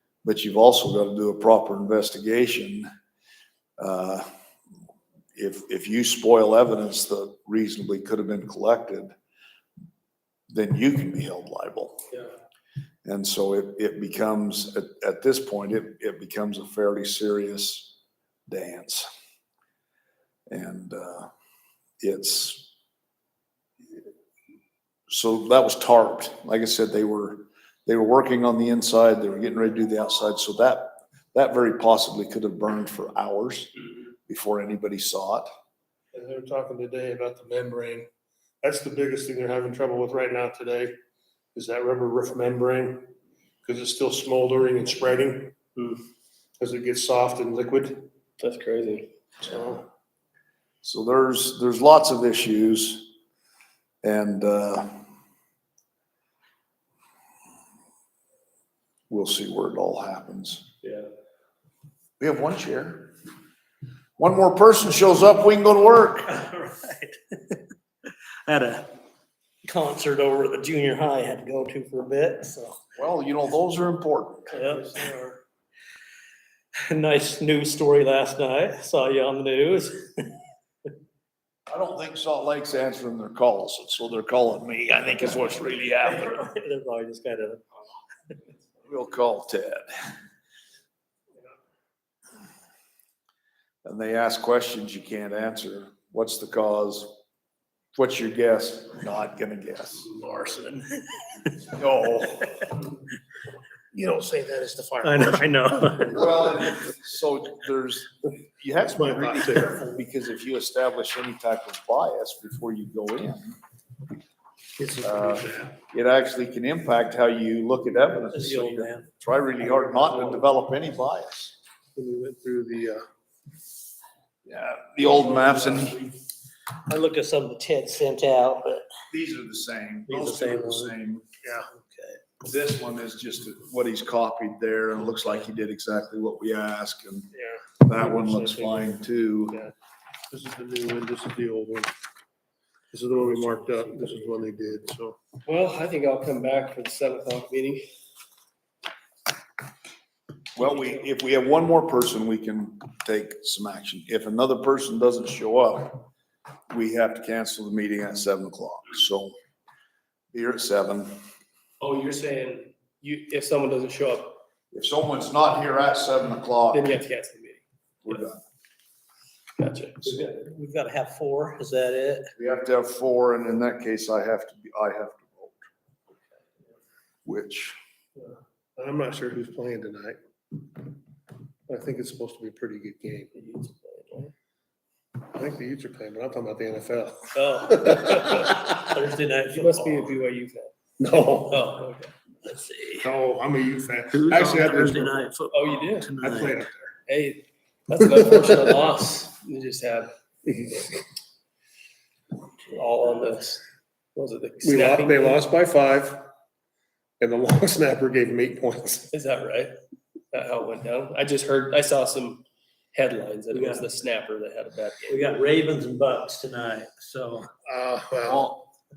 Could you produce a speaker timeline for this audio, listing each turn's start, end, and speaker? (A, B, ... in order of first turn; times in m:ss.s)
0:00.2-0:02.9 A
0:03.8-0:04.3 A
0:05.4-0:09.1 A
0:10.5-0:12.0 A
0:13.0-0:17.9 A
0:18.5-0:19.1 A
0:20.5-0:21.3 A
0:22.0-0:22.7 A
0:25.1-0:33.7 A
0:34.3-0:35.5 A
0:36.1-0:38.1 B
0:38.6-0:40.9 B
0:41.6-0:43.1 B
0:43.6-0:45.6 B
0:46.6-0:48.1 B
0:48.4-0:49.1 C
0:49.4-0:49.8 B
0:50.8-0:53.1 A
0:54.0-0:55.0 A
0:59.1-1:00.7 A
1:02.2-1:03.1 A
1:04.2-1:06.4 A
1:06.3-1:07.6 D
1:08.5-1:08.9 D
1:09.6-1:12.8 D
1:13.0-1:14.6 A
1:14.5-1:15.4 D
1:16.9-1:20.3 D
1:21.7-1:26.4 A
1:26.0-1:27.6 D
1:28.8-1:29.9 A
1:33.8-1:37.2 A
1:38.0-1:40.1 A
1:40.3-1:40.7 D
1:41.7-1:42.7 A
1:43.9-1:45.4 B
1:45.0-1:46.6 D
1:46.1-1:53.6 A
1:49.0-1:49.8 B
1:54.8-1:55.7 B
1:55.0-2:01.6 A
1:58.3-1:59.1 D
2:00.0-2:00.4 B
2:02.0-2:03.0 B
2:04.5-2:06.1 A
2:06.9-2:08.8 D
2:09.1-2:11.2 A
2:10.1-2:11.0 D
2:11.4-2:11.7 B
2:11.7-2:12.2 D
2:12.4-2:17.3 A
2:17.3-2:19.0 B
2:17.8-2:19.6 A
2:20.3-2:21.9 B
2:22.9-2:25.2 B
2:23.3-2:24.4 D
2:25.5-2:27.9 C
2:30.6-2:36.1 A
2:36.7-2:39.4 A
2:40.3-2:41.2 A
2:41.8-2:44.4 C
2:44.7-2:47.0 A
2:46.7-2:48.3 C
2:48.0-2:48.4 A
2:49.6-2:50.1 C
2:50.0-2:52.3 D
2:52.4-2:55.6 A
2:57.3-2:57.8 A
2:58.8-3:00.6 B
3:01.7-3:03.3 B
3:03.4-3:04.3 C
3:05.3-3:08.4 B
3:07.4-3:08.7 C
3:08.4-3:10.2 D
3:09.5-3:10.7 C
3:11.0-3:11.6 B
3:11.5-3:12.1 C
3:12.4-3:13.1 D
3:13.0-3:15.2 B
3:14.1-3:16.6 D
3:15.5-3:16.3 C
3:16.2-3:16.9 B
3:17.1-3:20.9 C
3:20.5-3:20.8 B
3:22.7-3:23.6 C
3:24.2-3:25.4 C
3:24.6-3:26.2 B
3:27.2-3:29.1 B
3:29.1-3:29.8 C
3:30.3-3:35.2 C
3:33.5-3:33.8 D
3:35.1-3:37.5 D
3:37.7-3:38.5 B
3:38.3-3:38.6 A